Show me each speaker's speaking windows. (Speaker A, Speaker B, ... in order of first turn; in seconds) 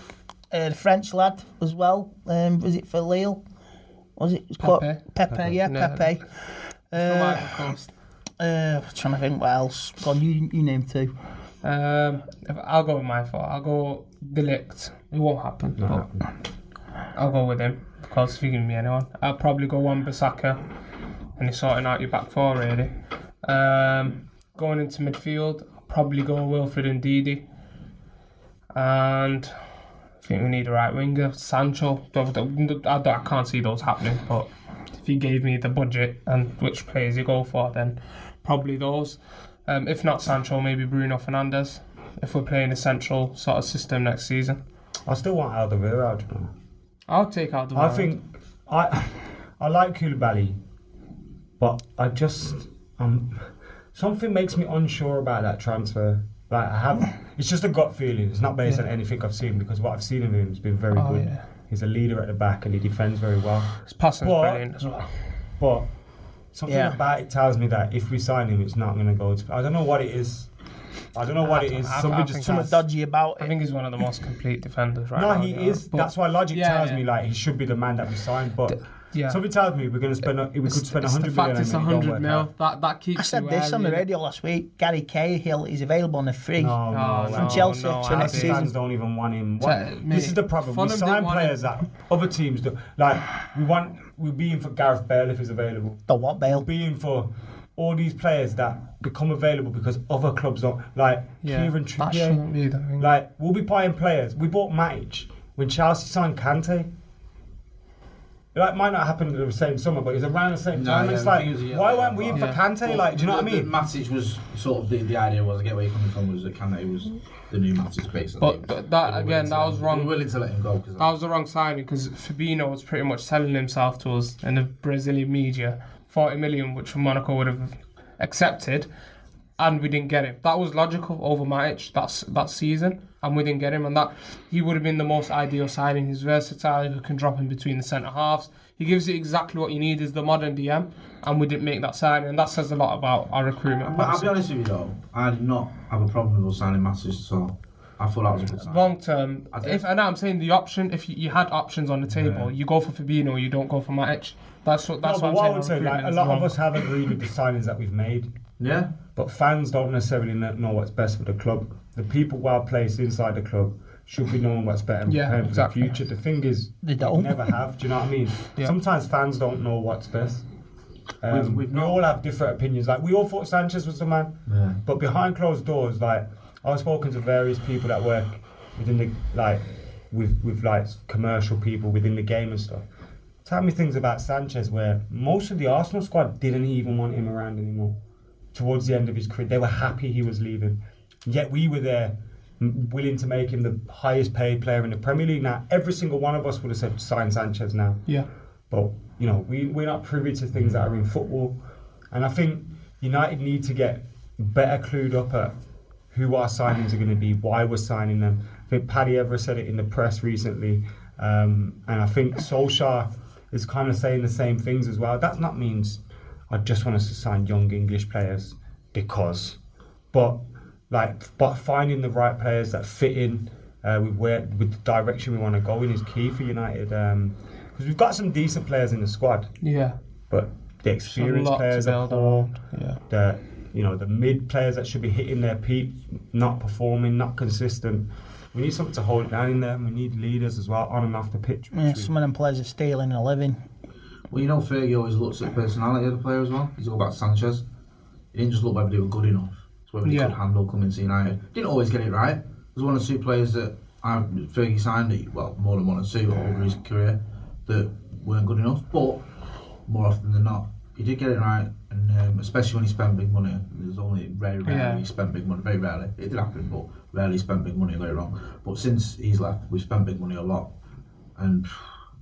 Speaker A: 0.5-3.4, 4.2-6.3, 6.9-7.6, 8.4-11.1, 66.7-67.0, 72.4-73.5, 83.2-88.7, 96.1-96.7, 166.8-167.6, 241.7-243.6
Speaker B: 4.6-6.1, 7.0-7.9, 11.6-16.1, 17.1-20.6, 21.4-22.9, 23.4-27.4, 28.7-29.5, 30.2-44.6, 47.1-48.1, 60.9-61.4, 63.9-65.1, 71.4-72.7, 73.4-77.0, 79.1-79.4, 80.7-84.0, 86.9-88.7, 89.6-91.7, 101.4-103.1, 112.3-112.6, 118.4-120.1, 121.0-128.9, 129.6-144.3, 148.5-156.9, 165.1-165.9, 229.6-229.9, 231.1-233.0, 250.0-250.3, 264.6-265.0
Speaker C: 15.8-16.2, 45.0-46.5, 47.7-50.6, 51.6-64.8, 65.6-65.9, 66.5-70.5, 71.1-72.8, 75.1-82.5, 86.6-102.4, 103.0-106.9, 108.5-113.7, 155.0-158.3, 159.1-170.5, 171.2-182.8, 183.4-188.0, 188.5-198.1, 198.7-201.6, 202.1-205.5, 206.1-219.6, 220.1-229.5, 230.3-232.6, 233.1-242.1
Speaker D: 110.7-121.1, 143.8-148.9, 149.5-149.8, 152.1-152.5, 158.6-158.9, 171.3-172.0, 174.5-174.8, 244.3-247.6, 248.3-259.2, 259.9-270.7, 271.4-271.8